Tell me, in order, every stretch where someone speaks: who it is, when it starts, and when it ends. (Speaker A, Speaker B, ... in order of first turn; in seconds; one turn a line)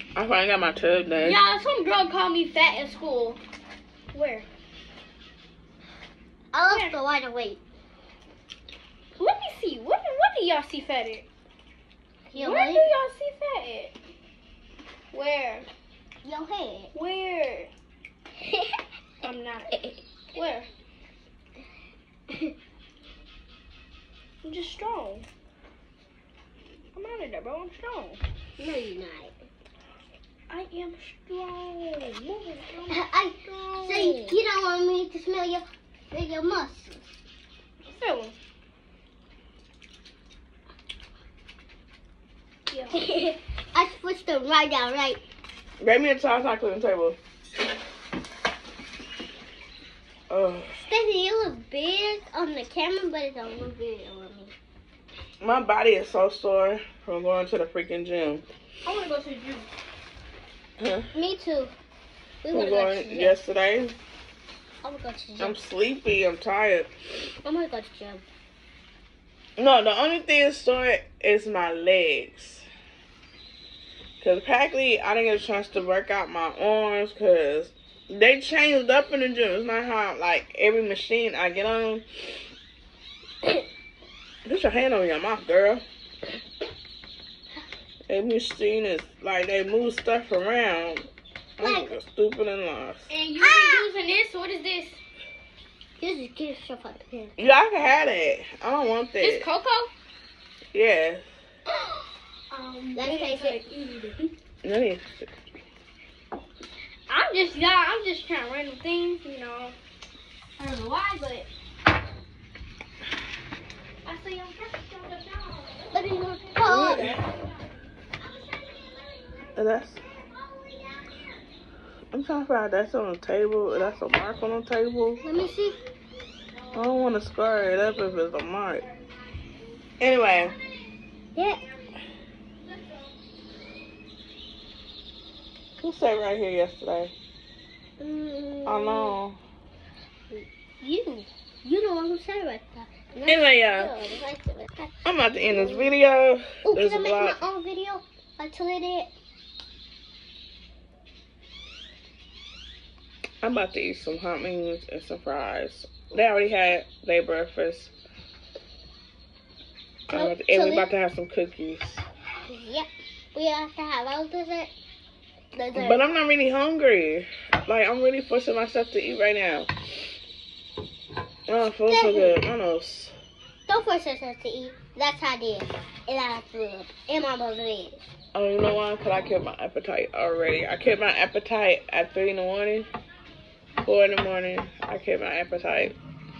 Speaker A: 0.1-1.4
Speaker B: 1.2-3.4
Speaker B: 4.1-4.5
Speaker C: 6.5-7.6
Speaker B: 6.7-6.9
Speaker B: 9.2-11.2
Speaker C: 12.3-12.9
Speaker B: 12.3-13.9
Speaker B: 15.1-15.7
Speaker C: 16.2-16.9
Speaker B: 16.9-17.7
Speaker C: 18.4-18.7
Speaker B: 19.2-20.7
Speaker B: 24.4-25.2
Speaker B: 26.9-28.2
Speaker C: 28.6-29.3
Speaker B: 30.5-34.4
Speaker C: 32.9-37.0
Speaker B: 37.8-38.4
Speaker B: 42.7-43.0
Speaker C: 42.9-45.2
Speaker A: 45.8-47.2
Speaker A: 50.3-50.8
Speaker C: 50.9-54.5
Speaker A: 55.4-58.4
Speaker B: 58.8-59.7
Speaker A: 60.8-61.1
Speaker C: 61.1-61.7
Speaker C: 62.4-63.4
Speaker A: 62.5-63.9
Speaker C: 64.8-65.5
Speaker A: 65.4-66.9
Speaker C: 67.4-68.2
Speaker A: 69.6-72.7
Speaker A: 74.2-82.4
Speaker A: 84.4-85.8
Speaker A: 88.1-91.1
Speaker A: 91.6-93.1
Speaker C: 91.6-91.9
Speaker B: 93.1-95.0
Speaker C: 93.4-93.9
Speaker C: 96.0-97.3
Speaker A: 97.4-99.4
Speaker B: 99.2-99.9
Speaker A: 100.7-101.2
Speaker B: 102.5-104.3
Speaker C: 102.9-103.6
Speaker A: 104.6-105.3
Speaker B: 107.1-109.8
Speaker B: 110.6-111.5
Speaker B: 114.0-117.6
Speaker C: 115.9-117.1
Speaker A: 116.7-117.2
Speaker B: 118.2-119.5
Speaker A: 119.5-120.0
Speaker C: 120.2-121.1
Speaker A: 122.1-125.2
Speaker C: 125.2-125.8
Speaker A: 126.7-128.8
Speaker A: 130.0-130.6
Speaker B: 130.5-130.8
Speaker C: 131.3-131.6
Speaker B: 132.6-133.1
Speaker A: 135.8-137.1
Speaker C: 138.0-139.2
Speaker A: 138.6-139.4
Speaker C: 140.3-144.9
Speaker A: 143.2-143.9
Speaker A: 145.0-147.4
Speaker C: 145.5-145.9
Speaker C: 146.6-149.1
Speaker A: 153.4-157.9
Speaker A: 160.1-162.0
Speaker C: 160.1-160.9
Speaker C: 162.4-164.7
Speaker C: 165.5-166.0
Speaker A: 165.7-169.7
Speaker A: 171.5-173.1
Speaker C: 171.9-172.4
Speaker C: 173.7-178.0
Speaker A: 178.3-182.9
Speaker A: 183.8-185.9